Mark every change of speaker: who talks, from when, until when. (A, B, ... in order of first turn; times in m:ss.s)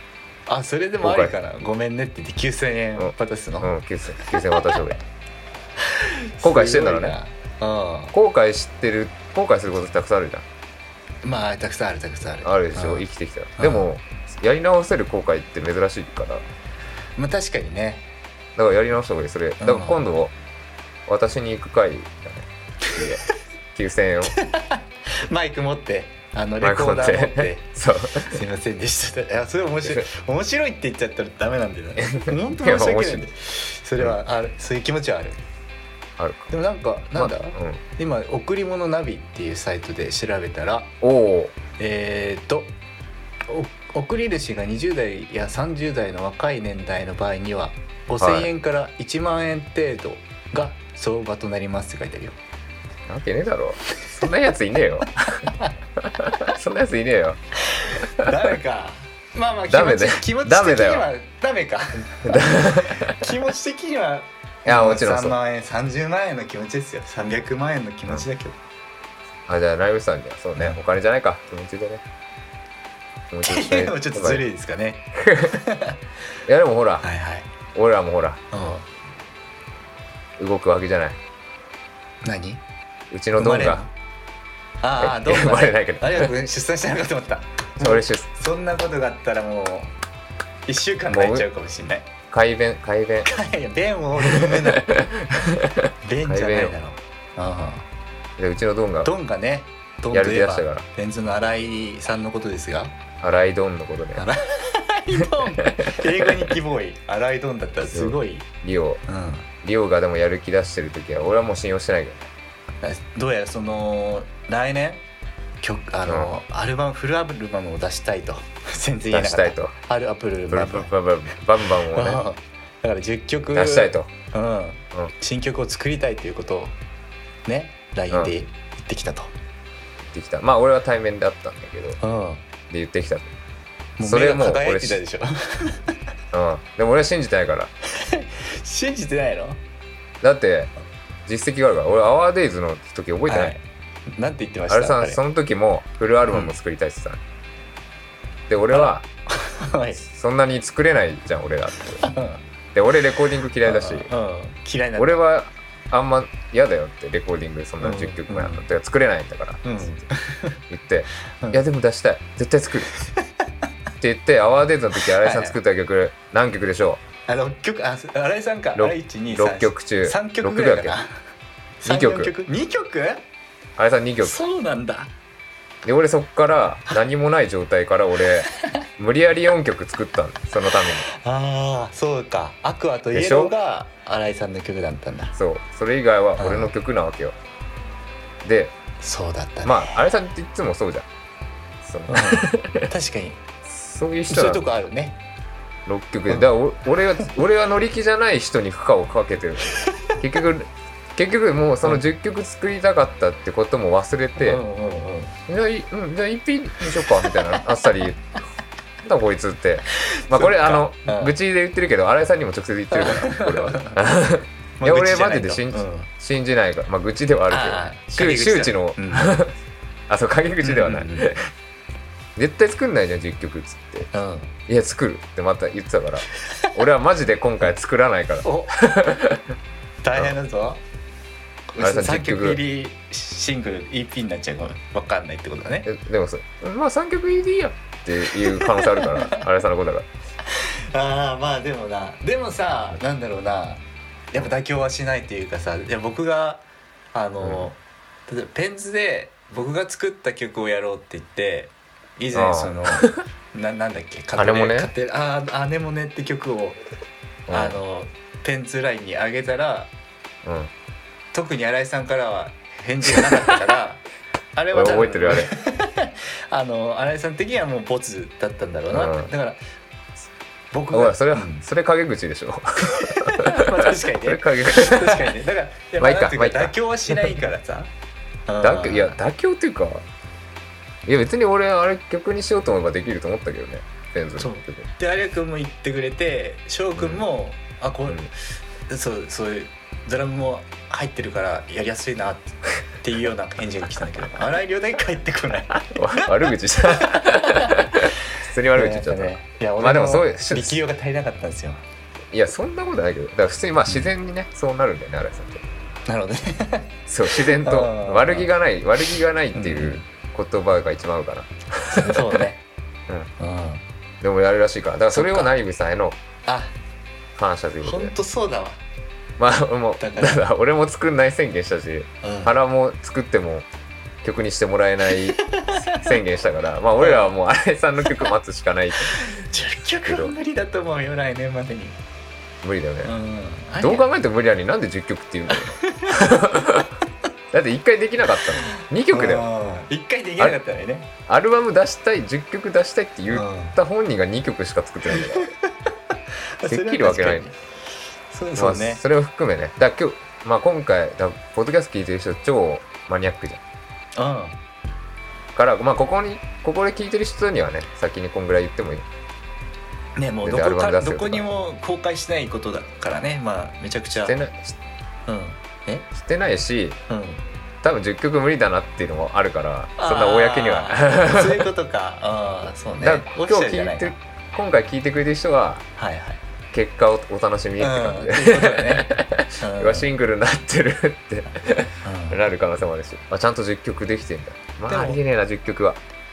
0:00.5-0:04.7 A
0:01.0-0:01.4 B
0:03.0-0:05.0 B
0:05.8-0:08.2 A
0:06.4-0:07.2 B
0:08.1-0:10.5 B
0:11.2-0:13.0 A
0:12.4-0:16.4 B
0:13.6-0:13.9 A
0:17.2-0:18.1 A
0:18.6-0:20.3 B
0:19.6-0:20.0 A
0:21.1-0:23.2 B
0:22.9-0:23.2 A
0:23.7-0:24.4 B
0:24.3-0:27.7 A
0:26.6-0:28.4 B
0:28.2-0:35.4 A
0:32.0-0:33.2 B
0:36.2-0:36.5 B
0:36.5-0:40.9 A
0:37.2-0:37.8 B
0:41.0-0:41.5 B
0:41.8-0:42.8 A
0:43.5-0:52.4 A
0:48.2-0:48.5 B
0:53.1-0:57.4 B
0:55.3-0:55.7 A
0:57.6-1:08.6 A
0:59.7-1:01.1 B
1:02.2-1:03.3 B
1:04.6-1:05.4 B
1:09.5-1:12.0 B
1:13.3-1:14.4 B
1:13.4-1:16.0 A
1:15.2-1:15.6 B
1:16.5-1:17.1 B
1:17.0-1:17.5 A
1:17.7-1:18.4 B
1:18.5-1:18.9 A
1:20.4-1:21.2 B
1:22.2-1:22.6 A
1:23.1-1:23.8 B
1:23.4-1:23.9 A
1:24.8-1:29.9 A
1:25.0-1:26.3 B
1:27.8-1:28.3 B
1:30.7-1:32.1 A
1:31.1-1:31.5 B
1:32.3-1:33.3 B
1:33.2-1:35.0 A
1:34.2-1:36.8 B
1:36.0-1:37.9 A
1:38.4-1:39.1 B
1:39.0-1:43.0 A
1:40.1-1:40.8 B
1:43.2-1:44.3 B
1:44.2-1:48.5 A
1:45.4-1:46.4 B
1:47.9-1:49.0 B
1:49.1-1:49.5 A
1:49.6-1:52.3 B
1:52.8-1:55.0 A
1:55.6-2:00.9 A
1:56.1-1:56.3 B
1:59.1-1:59.8 B
2:00.5-2:02.2 B
2:01.8-2:06.8 A
2:03.5-2:04.1 B
2:07.5-2:09.3 A
2:10.1-2:12.0 B
2:12.0-2:12.4 A
2:12.7-2:13.3 B
2:14.0-2:15.9 A
2:14.0-2:15.0 B
2:16.3-2:17.7 B
2:17.9-2:19.6 A
2:20.2-2:20.7 B
2:21.3-2:23.6 B
2:23.3-2:25.2 A
2:24.7-2:27.2 B
2:26.3-2:26.6 A
2:28.5-2:29.0 B
2:28.7-2:30.0 A
2:30.1-2:32.1 B
2:32.0-2:32.4 A
2:32.7-2:34.1 B
2:33.6-2:35.2 A
2:35.0-2:40.0 B
2:37.8-2:38.7 A
2:39.6-2:40.6 A
2:40.7-2:42.9 B
2:41.4-2:41.6 A
2:43.0-2:43.5 A
2:44.0-2:47.0 B
2:45.0-2:45.6 A
2:47.3-2:51.2 A
2:48.8-2:51.0 B
2:51.8-2:53.2 A
2:51.8-2:52.3 B
2:53.8-2:54.4 B
2:54.2-2:55.1 A
2:55.8-3:01.1 B
2:58.6-2:58.8 A
3:00.8-3:05.4 A
3:03.1-3:03.5 B
3:05.4-3:07.4 B
3:06.4-3:06.7 A
3:08.4-3:08.8 B
3:09.0-3:10.0 A
3:09.6-3:11.1 B
3:11.8-3:12.9 B
3:12.1-3:13.4 A
3:13.6-3:14.6 B
3:14.3-3:15.2 A
3:15.9-3:24.6 B
3:19.8-3:20.2 A
3:24.4-3:25.4 A
3:25.5-3:28.2 B
3:29.0-3:39.5 B
3:30.0-3:31.3 A
3:32.9-3:34.0 A
3:34.8-3:36.1 A
3:37.5-3:39.4 A
3:40.1-3:41.4 B
3:40.6-3:41.3 A
3:42.4-3:44.1 B
3:44.1-3:44.5 A
3:44.7-3:49.4 B
3:46.4-3:46.7 A
3:48.4-3:48.8 A
3:50.0-3:50.8 A
3:51.7-3:55.9 A
3:51.8-3:52.6 B
3:55.9-4:00.1 B
3:58.3-3:59.4 A
4:00.5-4:16.8 A
4:07.4-4:07.7 B
4:12.3-4:13.2 B
4:14.4-4:14.9 B
4:17.5-4:17.8 B
4:17.5-4:19.9 A
4:20.4-4:20.7 B
4:21.3-4:24.0 A
4:23.2-4:23.6 B
4:24.6-4:29.6 A
4:24.7-4:25.5 B
4:28.9-4:29.3 B
4:30.7-4:31.6 A
4:30.9-4:35.4 B
4:32.9-4:37.9 A
4:36.0-4:37.4 B
4:38.5-4:39.2 A
4:38.6-4:40.1 B
4:41.1-4:44.9 B
4:44.4-4:48.4 A
4:47.0-4:47.2 B
4:48.9-5:01.8 A
4:55.8-5:00.8 B
5:02.3-5:05.6 B
5:06.1-5:08.5 A
5:07.1-5:12.4 B
5:09.5-5:10.1 A
5:11.9-5:12.6 A
5:13.4-5:13.8 A
5:14.2-5:16.2 B
5:15.1-5:15.5 A
5:16.5-5:16.8 A
5:17.4-5:18.1 B
5:17.8-5:18.8 A
5:19.4-5:23.7 B
5:20.0-5:20.4 A
5:22.2-5:22.6 A
5:24.2-5:29.3 B
5:25.4-5:26.2 A
5:27.0-5:27.3 A
5:29.0-5:32.0 A
5:30.0-5:30.3 B
5:32.6-5:33.1 B
5:33.0-5:34.1 A
5:33.8-5:37.0 B
5:35.5-5:36.4 A
5:37.5-5:39.5 B
5:38.5-5:41.1 A
5:41.3-5:45.5 B
5:43.3-5:43.8 A
5:45.1-5:45.9 A
5:46.6-5:47.6 A
5:46.6-5:47.5 B
5:48.3-5:49.0 A
5:48.6-5:53.6 B
5:54.2-5:54.6 A
5:55.5-5:59.1 B
6:00.2-6:04.4 A
6:00.4-6:01.5 B
6:04.2-6:04.8 B
6:05.3-6:06.1 A
6:06.1-6:07.0 B
6:07.1-6:07.4 A
6:07.8-6:11.7 B
6:10.0-6:14.2 A
6:13.0-6:15.9 B
6:16.0-6:16.4 A
6:16.7-6:26.0 B
6:17.8-6:20.1 A
6:22.0-6:22.4 A
6:24.9-6:25.2 A